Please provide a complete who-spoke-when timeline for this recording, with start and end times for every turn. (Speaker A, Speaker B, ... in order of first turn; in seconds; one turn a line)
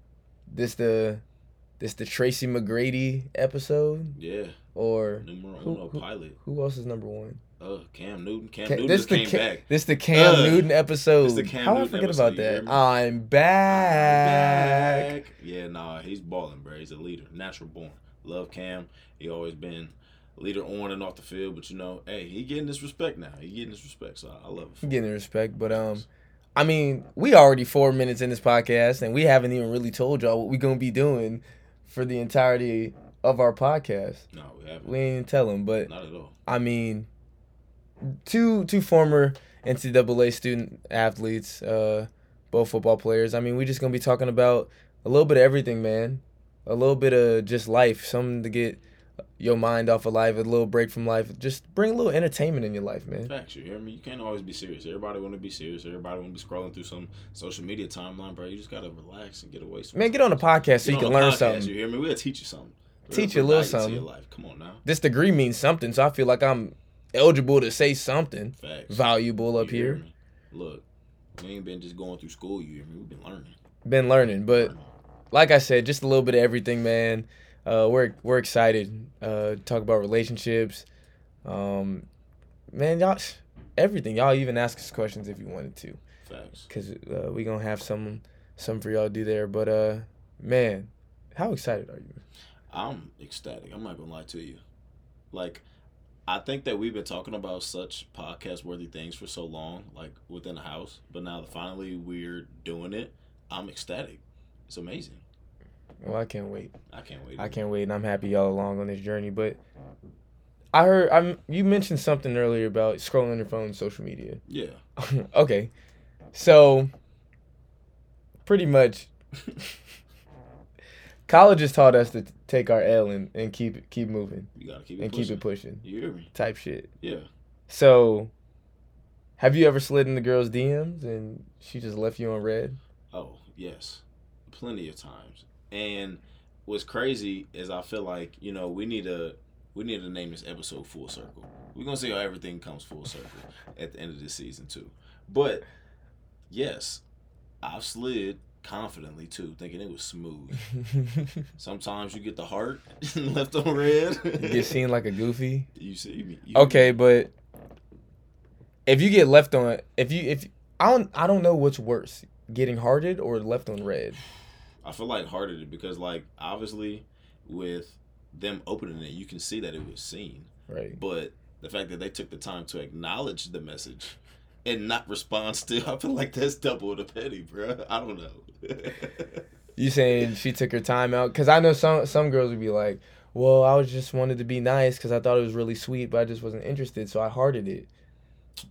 Speaker A: 0.5-1.2
Speaker A: 1.8-4.2
Speaker B: 4.1-4.5
Speaker A: 4.7-7.4
Speaker B: 5.2-6.4
Speaker B: 7.6-12.8
Speaker A: 8.7-15.1
Speaker B: 13.7-25.0
Speaker A: 24.8-34.2
Speaker B: 25.7-26.0
Speaker B: 34.3-35.0
Speaker A: 34.8-35.9
Speaker B: 35.8-36.3
Speaker A: 36.5-37.1
Speaker A: 38.2-48.8
Speaker A: 49.4-53.3
Speaker B: 53.3-64.8
Speaker A: 59.9-61.7
Speaker A: 63.1-64.0
Speaker A: 64.8-70.0
Speaker B: 68.5-69.0
Speaker B: 69.6-70.8
Speaker B: 71.4-73.5
Speaker A: 73.8-74.7
Speaker B: 74.4-74.9
Speaker A: 75.3-80.9
Speaker A: 81.4-82.0
Speaker A: 82.7-86.0
Speaker B: 86.2-86.7
Speaker A: 86.7-92.2
Speaker B: 92.7-94.6
Speaker B: 95.3-95.6
Speaker B: 96.3-105.2
Speaker A: 106.0-106.7
Speaker B: 106.9-107.6
Speaker A: 107.4-109.6
Speaker A: 110.7-114.4
Speaker B: 114.5-114.8
Speaker A: 115.0-115.7
Speaker A: 116.3-116.9
Speaker A: 118.4-119.1
Speaker A: 121.3-126.9
Speaker B: 124.5-126.3
Speaker B: 127.0-127.3
Speaker A: 127.7-128.3
Speaker A: 129.4-132.8
Speaker B: 133.1-145.7
Speaker B: 146.5-147.0
Speaker B: 147.6-150.7
Speaker A: 150.9-151.3
Speaker B: 151.6-154.8
Speaker A: 154.4-155.7
Speaker B: 155.7-157.0
Speaker A: 156.5-157.3
Speaker A: 158.8-164.2
Speaker B: 164.8-179.4
Speaker A: 170.7-171.0
Speaker A: 179.8-187.9